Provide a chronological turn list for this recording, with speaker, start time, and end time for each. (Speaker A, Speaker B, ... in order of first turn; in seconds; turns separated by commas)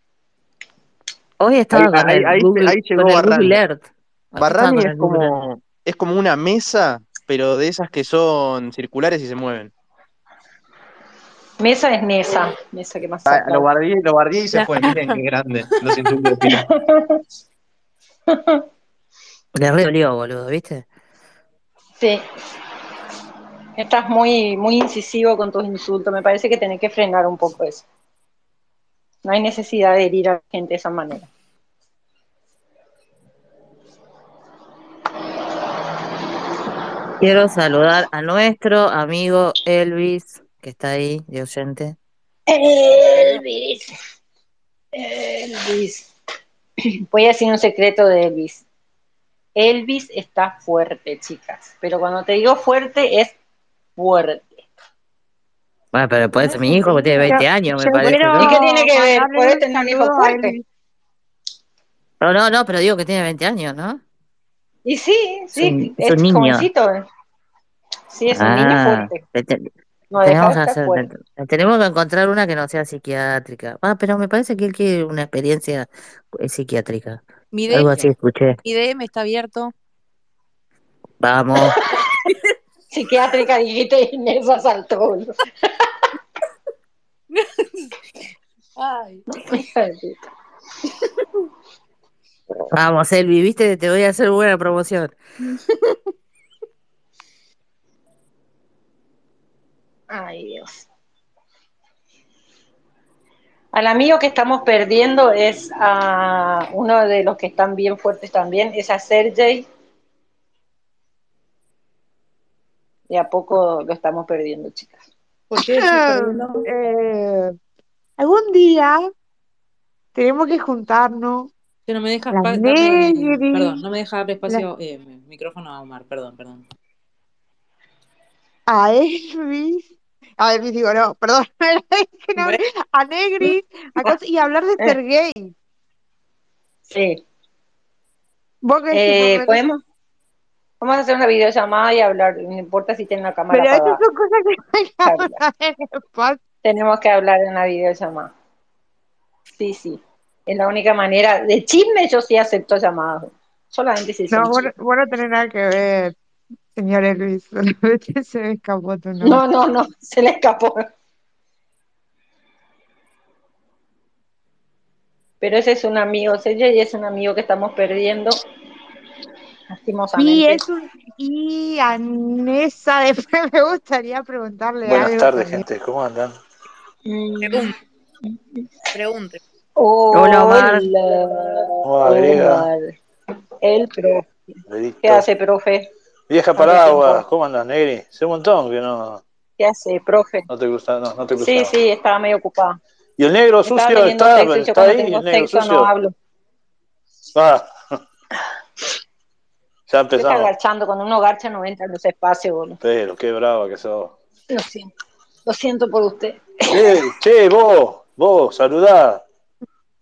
Speaker A: 1.4-5.3, Speaker B: 1.7-3.6, Speaker B: 4.4-9.7, Speaker C: 11.6-13.7, Speaker B: 13.3-16.6, Speaker D: 14.5-15.2, Speaker C: 16.5-17.2, Speaker C: 18.3-18.6, Speaker A: 19.6-20.9, Speaker C: 23.8-27.9, Speaker C: 29.2-31.3, Speaker A: 37.2-42.0, Speaker C: 42.5-43.9, Speaker C: 45.0-46.1, Speaker C: 47.1-48.6, Speaker C: 49.6-53.3, Speaker C: 54.0-54.5, Speaker A: 55.9-58.6, Speaker E: 56.4-60.6, Speaker C: 58.4-60.6, Speaker A: 62.2-64.0, Speaker C: 64.8-67.1, Speaker A: 65.6-66.7, Speaker C: 68.1-69.2, Speaker A: 68.3-69.7, Speaker C: 70.1-71.1, Speaker A: 70.2-78.6, Speaker D: 77.5-78.1, Speaker D: 78.7-79.7, Speaker A: 81.2-81.7, Speaker C: 81.6-82.0, Speaker C: 82.9-85.3, Speaker D: 87.3-87.9, Speaker D: 88.8-89.2, Speaker C: 89.4-90.2, Speaker A: 92.7-95.1, Speaker C: 100.1-100.9, Speaker C: 103.7-109.7, Speaker C: 113.1-115.0, Speaker F: 115.5-116.7, Speaker E: 115.5-117.6, Speaker E: 118.2-119.0, Speaker E: 120.2-121.5, Speaker F: 121.9-126.7, Speaker E: 122.3-123.8, Speaker E: 128.7-135.5, Speaker C: 136.9-137.2, Speaker E: 138.6-139.6, Speaker C: 138.9-139.8, Speaker C: 140.8-144.0, Speaker E: 143.5-146.4, Speaker C: 145.1-145.4, Speaker C: 146.6-148.3, Speaker C: 149.6-154.7, Speaker E: 154.3-156.2, Speaker E: 156.8-159.4, Speaker C: 159.2-160.8, Speaker C: 165.4-168.4, Speaker C: 169.8-170.6, Speaker E: 170.2-175.7, Speaker G: 174.8-176.3, Speaker C: 177.1-177.7, Speaker D: 177.4-177.8, Speaker D: 178.9-179.4, Speaker C: 179.8-182.9, Speaker A: 180.1-180.9, Speaker G: 181.8-182.7, Speaker C: 183.6-184.3, Speaker G: 184.7-185.3, Speaker C: 185.0-185.9, Speaker G: 186.3-189.2, Speaker C: 186.6-187.3, Speaker C: 189.6-190.5, Speaker G: 190.5-191.8, Speaker C: 191.4-192.8, Speaker G: 193.2-195.9, Speaker C: 193.6-196.1, Speaker G: 197.3-198.0, Speaker G: 199.9-200.5, Speaker C: 200.1-202.8, Speaker G: 202.8-204.1, Speaker C: 204.5-204.9, Speaker C: 205.5-207.0, Speaker G: 206.7-209.2